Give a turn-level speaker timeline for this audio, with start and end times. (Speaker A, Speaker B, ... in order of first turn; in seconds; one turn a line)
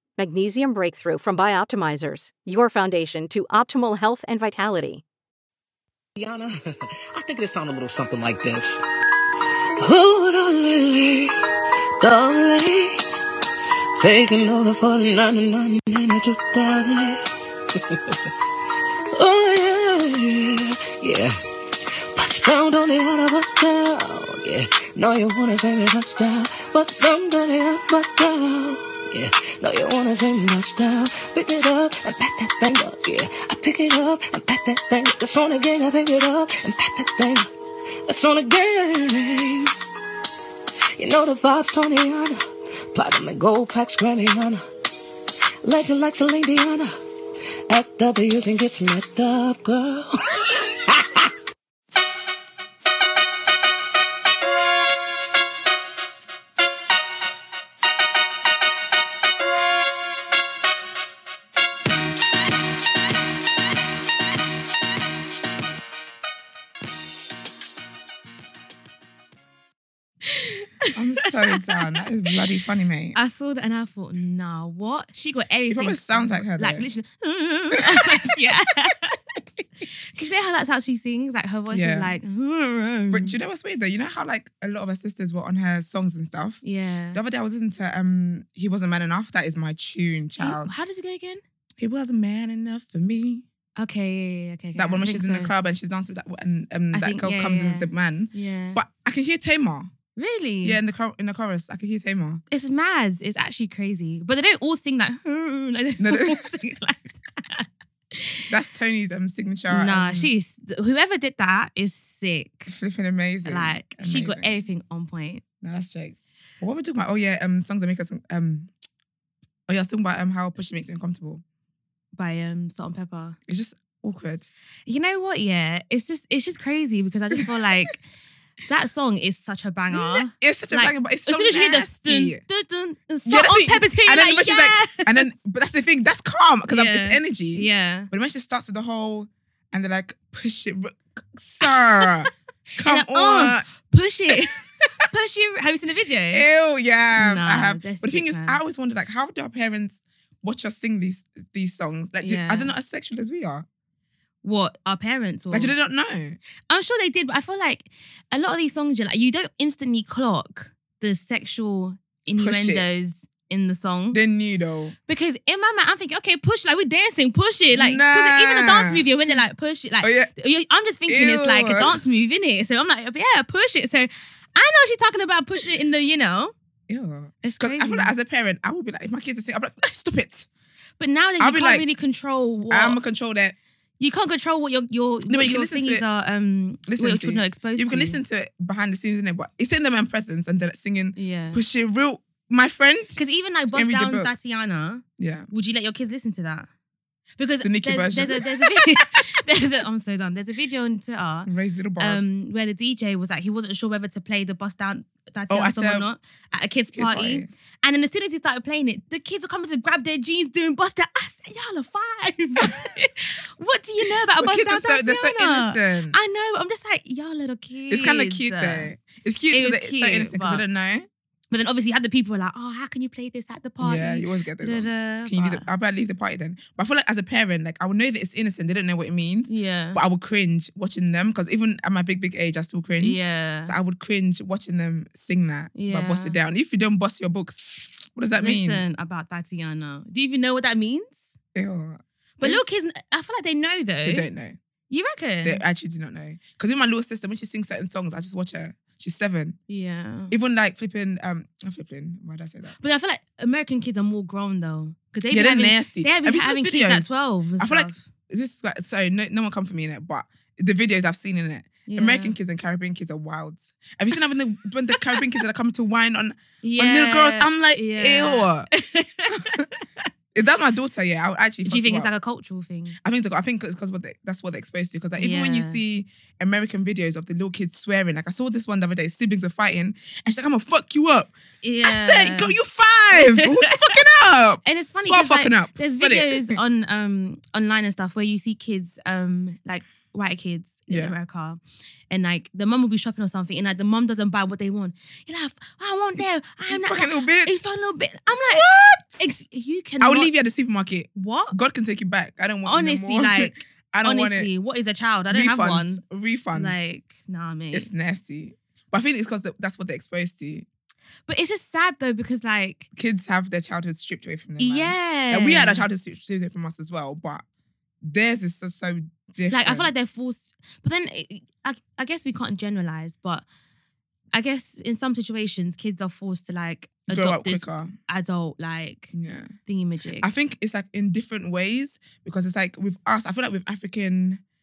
Speaker A: 0.2-5.0
Speaker B: 6.2-6.5
Speaker B: 7.2-8.8
Speaker B: 9.8-11.3
Speaker B: 12.0-13.0
Speaker B: 14.0-17.3
Speaker B: 17.9-18.2
Speaker B: 19.2-37.5
Speaker B: 38.1-39.7
Speaker B: 41.0-42.4
Speaker B: 42.9-44.6
Speaker B: 45.6-46.9
Speaker B: 47.7-51.3
Speaker C: 70.2-71.8
Speaker D: 70.9-73.2
Speaker C: 73.2-79.2
Speaker D: 75.7-76.9
Speaker D: 77.7-78.5
Speaker C: 80.1-83.4
Speaker D: 81.7-82.1
Speaker D: 83.1-86.6
Speaker C: 86.6-87.2
Speaker D: 87.1-90.7
Speaker C: 90.4-91.4
Speaker D: 91.8-93.5
Speaker C: 93.8-95.5
Speaker D: 94.8-99.9
Speaker C: 96.9-98.8
Speaker C: 100.2-100.8
Speaker D: 100.6-102.4
Speaker C: 102.5-108.4
Speaker D: 106.0-106.5
Speaker D: 108.5-110.3
Speaker C: 109.7-112.7
Speaker D: 112.7-114.5
Speaker C: 113.5-115.4
Speaker D: 115.6-118.7
Speaker D: 119.7-121.4
Speaker C: 122.2-123.4
Speaker D: 123.5-124.5
Speaker C: 124.9-128.0
Speaker C: 128.7-135.3
Speaker D: 129.9-132.4
Speaker D: 133.3-143.7
Speaker C: 136.7-138.1
Speaker C: 141.7-146.4
Speaker D: 146.3-153.7
Speaker C: 147.2-148.6
Speaker C: 152.2-152.7
Speaker C: 154.4-155.7
Speaker D: 155.5-156.4
Speaker C: 156.7-164.2
Speaker D: 162.4-162.9
Speaker D: 164.1-164.9
Speaker C: 165.1-176.5
Speaker D: 167.7-169.1
Speaker D: 170.0-170.3
Speaker D: 171.1-172.0
Speaker D: 176.9-180.5
Speaker C: 177.4-178.2
Speaker C: 181.0-183.0
Speaker D: 181.4-181.8
Speaker D: 182.7-183.6
Speaker C: 184.0-188.2
Speaker D: 185.3-186.0
Speaker D: 186.9-193.2
Speaker C: 191.2-191.6
Speaker C: 193.2-196.7
Speaker D: 193.7-194.3
Speaker D: 195.2-195.5
Speaker C: 197.4-218.9
Speaker D: 197.6-199.1
Speaker D: 201.5-202.3
Speaker D: 205.5-206.1
Speaker D: 206.9-207.5
Speaker D: 214.4-216.2
Speaker D: 217.9-221.1
Speaker C: 219.5-220.6
Speaker C: 221.5-225.7
Speaker D: 223.8-238.8
Speaker C: 229.5-230.0
Speaker C: 233.0-233.7
Speaker C: 235.8-236.4
Speaker C: 238.4-241.3
Speaker D: 241.6-242.7
Speaker C: 242.4-244.3
Speaker D: 244.1-244.6
Speaker C: 244.9-245.6
Speaker D: 245.4-249.6
Speaker C: 249.7-250.3
Speaker D: 250.3-252.8
Speaker C: 252.8-258.1
Speaker D: 255.3-268.7
Speaker C: 261.9-262.4
Speaker C: 266.6-269.9
Speaker D: 269.3-269.7
Speaker D: 270.4-272.1
Speaker C: 271.7-273.0
Speaker D: 273.0-281.3
Speaker C: 275.2-275.8
Speaker C: 281.6-282.6
Speaker D: 281.8-286.6
Speaker C: 283.1-283.5
Speaker C: 284.6-291.6
Speaker D: 290.9-291.2
Speaker C: 292.1-298.6
Speaker D: 296.7-297.6
Speaker D: 298.5-299.3
Speaker C: 299.2-300.3
Speaker D: 300.0-304.5
Speaker C: 301.2-301.6
Speaker C: 302.7-306.0
Speaker D: 305.3-306.8
Speaker C: 306.5-307.9
Speaker D: 307.7-310.7
Speaker C: 311.3-312.9
Speaker D: 313.0-317.4
Speaker C: 314.6-315.9
Speaker D: 318.0-319.9
Speaker C: 319.5-323.4
Speaker C: 324.3-329.1
Speaker D: 327.1-327.9
Speaker D: 329.1-329.6
Speaker C: 329.7-330.3
Speaker D: 330.2-334.4